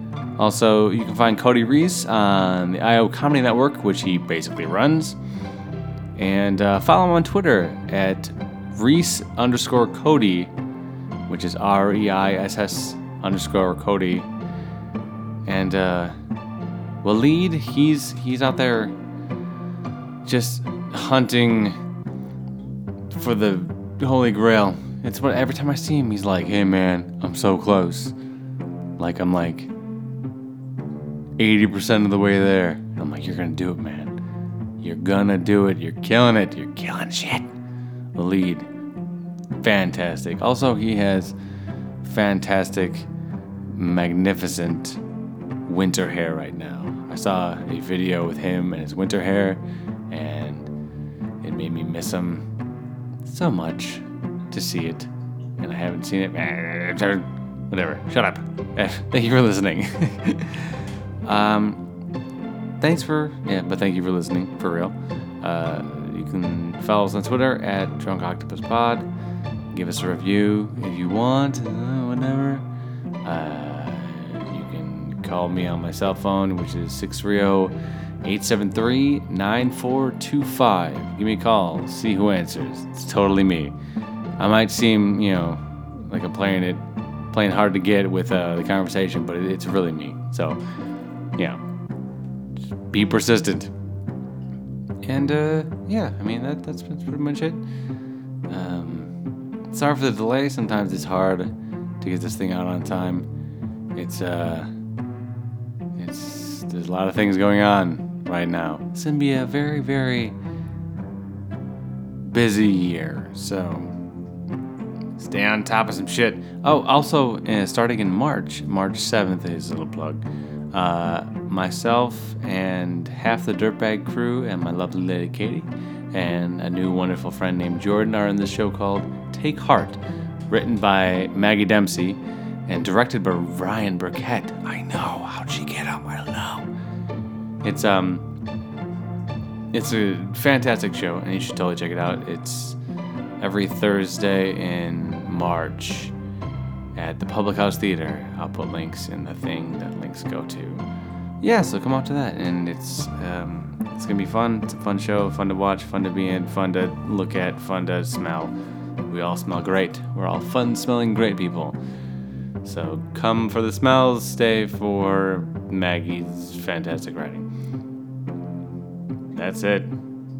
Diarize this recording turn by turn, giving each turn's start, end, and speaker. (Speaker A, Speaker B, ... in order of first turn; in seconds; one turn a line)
Speaker A: 0.4-5.2
Speaker A: 6.2-10.5
Speaker A: 11.3-14.3
Speaker A: 15.5-16.1
Speaker A: 17.0-18.9
Speaker A: 20.2-21.8
Speaker A: 23.1-28.1
Speaker A: 29.0-29.7
Speaker A: 31.4-34.2
Speaker A: 34.8-37.5
Speaker A: 38.2-38.7
Speaker A: 39.6-41.3
Speaker A: 42.0-43.1
Speaker A: 43.7-45.0
Speaker A: 45.7-50.7
Speaker A: 51.4-52.5
Speaker A: 53.3-55.1
Speaker A: 55.6-61.8
Speaker A: 62.8-69.1
Speaker A: 69.7-72.7
Speaker A: 73.2-83.8
Speaker A: 84.4-90.6
Speaker A: 92.9-93.7
Speaker A: 95.0-97.6
Speaker A: 98.5-99.1
Speaker A: 99.7-103.3
Speaker A: 104.0-104.7
Speaker A: 106.0-110.4
Speaker A: 112.2-113.9
Speaker A: 115.2-130.0
Speaker A: 130.5-136.7
Speaker A: 137.6-138.2
Speaker A: 139.7-142.8
Speaker A: 143.4-146.1
Speaker A: 147.0-150.8
Speaker A: 151.4-158.5
Speaker A: 159.1-161.8
Speaker A: 162.7-167.5
Speaker A: 169.3-169.9